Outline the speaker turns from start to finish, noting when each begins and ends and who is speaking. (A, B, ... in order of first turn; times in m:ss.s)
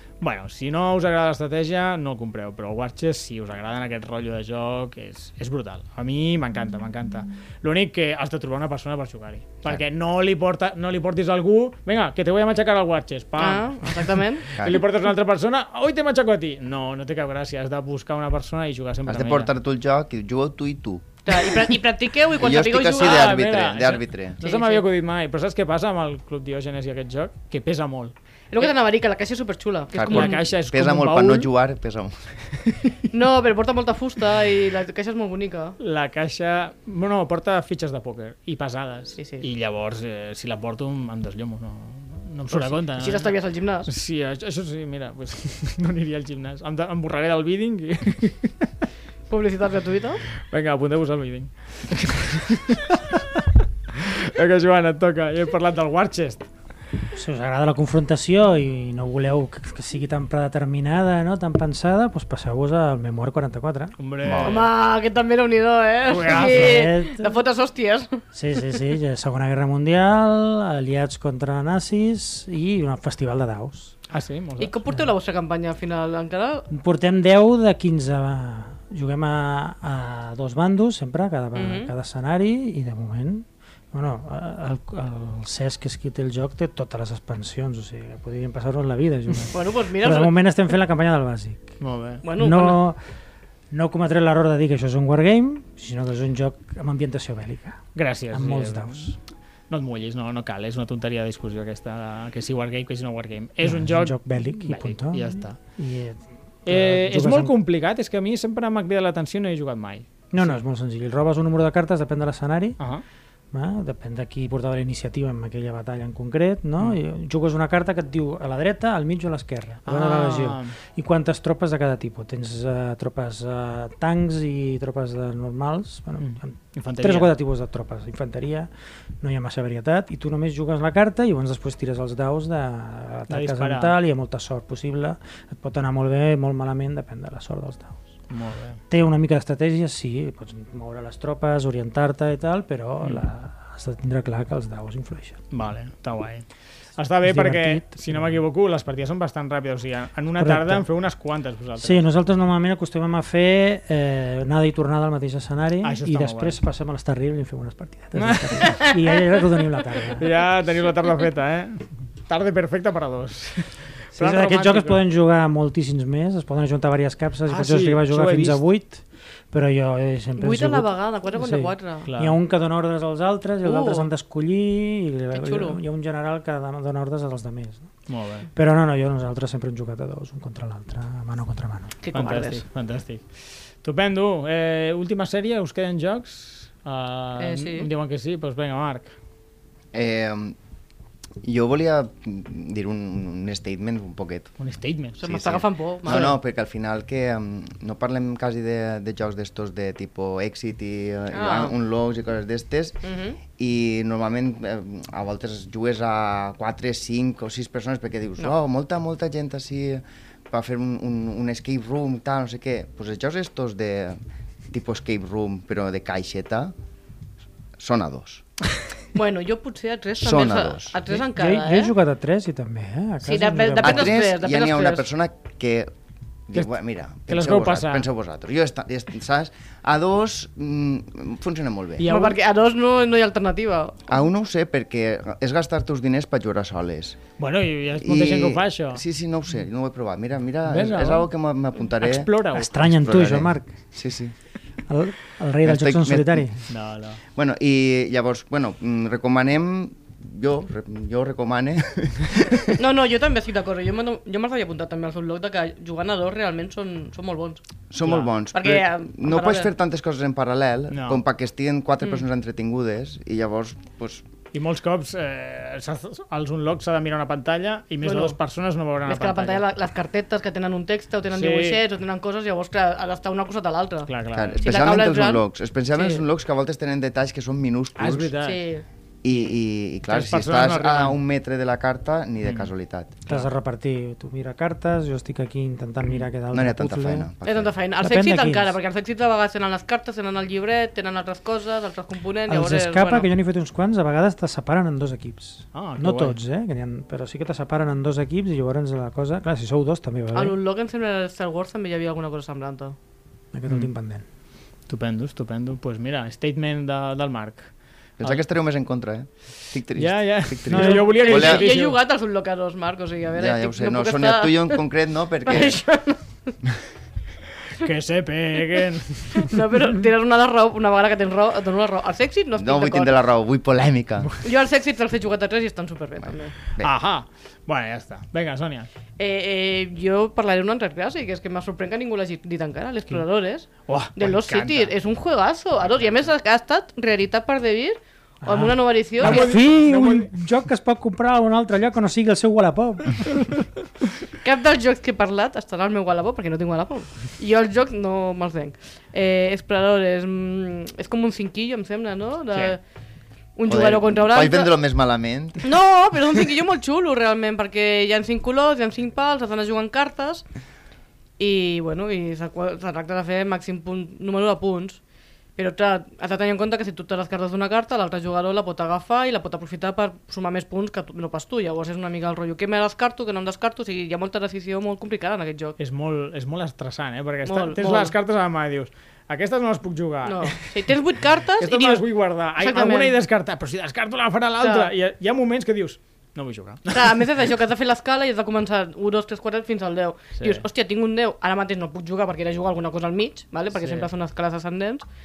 0:00.2-0:19.5 A
0:13.4-0:14.5 B
0:14.6-0:14.8 C
0:19.1-0:21.7 C
0:21.2-0:23.4 B
0:22.3-0:24.4 C
0:22.8-0:28.7 A
0:24.4-0:24.8 B
0:28.5-0:30.4 B
0:29.9-0:32.9 C
0:30.1-0:31.5 A
0:33.1-0:35.8 B
0:35.8-0:43.3 A
0:39.2-0:39.4 B
0:42.5-0:43.9 B
0:43.8-0:48.7 A
0:49.3-0:50.2 B
0:50.4-0:56.4 A
0:57.1-1:04.0 D
1:04.0-1:04.7 A
1:04.2-1:04.6 C
1:04.4-1:08.2 B
1:06.0-1:06.9 A
1:06.3-1:07.4 D
1:08.3-1:13.9 D
1:14.1-1:14.7 A
1:14.6-1:16.7 B
1:16.7-1:31.7 D
1:21.5-1:21.9 B
1:29.5-1:30.4 B
1:31.8-1:32.2 A
1:32.2-1:32.8 B
1:32.3-1:33.0 D
1:33.7-1:39.2 D
1:37.9-1:39.1 A
1:39.7-1:45.6 A
1:43.6-1:47.5 D
1:46.6-1:50.6 A
1:50.3-1:52.8 D
1:52.8-1:53.0 A
1:53.5-2:08.7 D
1:59.8-2:00.7 A
2:06.2-2:07.3 A
2:09.2-2:18.0 D
2:13.3-2:14.0 A
2:18.3-2:18.8 A
2:18.9-2:25.4 D
2:25.5-2:26.4 A
2:27.0-2:32.0 A
2:27.2-2:28.4 D
2:30.4-2:30.8 D
2:31.8-2:40.3 D
2:35.8-2:36.6 A
2:38.1-2:38.8 A
2:40.2-2:45.0 A
2:44.1-2:57.9 D
2:47.5-2:48.6 A
2:50.4-2:52.1 B
2:52.0-2:52.4 A
2:53.6-2:54.1 B
2:55.3-2:55.8 B
2:58.1-2:58.5 A
2:58.5-3:02.0 D
3:02.0-3:02.6 B
3:02.1-3:09.2 A
3:07.4-3:07.9 B
3:09.9-3:10.6 C
3:11.4-3:14.5 C
3:14.6-3:15.2 A
3:15.2-3:16.4 B
3:15.2-3:34.2 C
3:21.3-3:21.7 B
3:23.0-3:23.4 B
3:34.7-3:36.7 C
3:37.8-3:38.4 C
3:39.1-3:41.9 B
3:40.2-3:41.0 C
3:41.2-3:44.2 D
3:43.2-3:45.0 B
3:43.8-3:45.9 C
3:46.5-3:52.1 C
3:47.3-3:48.1 A
3:52.0-3:52.4 A
3:52.0-3:54.1 B
3:54.1-3:57.2 C
3:57.4-3:59.0 A
3:58.0-4:04.3 C
4:00.6-4:01.3 A
4:02.0-4:02.8 A
4:02.5-4:03.7 D
4:04.9-4:06.6 D
4:05.6-4:06.5 C
4:06.7-4:07.2 A
4:07.3-4:12.8 C
4:12.8-4:17.6 B
4:17.9-4:24.2 C
4:18.0-4:18.3 A
4:18.5-4:19.7 B
4:20.9-4:21.2 A
4:24.5-4:29.6 A
4:28.0-4:28.4 B
4:29.0-4:36.2 B
4:31.3-4:31.8 A
4:34.1-4:34.7 A
4:34.3-4:38.3 C
4:38.0-4:38.6 A
4:38.4-4:38.8 B
4:39.2-4:43.2 C
4:40.1-4:41.2 A
4:42.4-4:42.7 A
4:43.3-4:47.3 D
4:46.5-4:47.7 C
4:47.4-4:53.3 B
4:48.0-4:48.7 D
4:52.5-5:00.6 D
4:55.7-4:56.4 A
5:00.3-5:03.0 B
5:03.5-5:04.2 D
5:04.9-5:08.4 A
5:08.2-5:11.7 C
5:10.0-5:12.0 A
5:10.7-5:11.2 D
5:10.9-5:14.8 B
5:13.3-5:15.8 C
5:15.4-5:16.5 B
5:17.8-5:19.5 A
5:19.3-5:23.2 B
5:22.6-5:24.3 C
5:24.4-5:26.5 B
5:26.8-5:28.9 A
5:29.2-5:39.6 B
5:33.8-5:34.9 A
5:38.4-5:43.7 D
5:39.2-5:40.3 A
5:44.4-5:52.8 B
5:53.6-5:54.7 B
5:53.7-5:55.7 C
5:55.6-6:00.4 B
6:01.4-6:05.0 B
6:05.6-6:15.7 B
6:15.8-6:20.8 A
6:17.4-6:18.1 B
6:20.2-6:23.1 B
6:21.6-6:27.2 A
6:24.6-6:24.9 B
6:26.9-6:35.0 B
6:33.7-6:34.1 A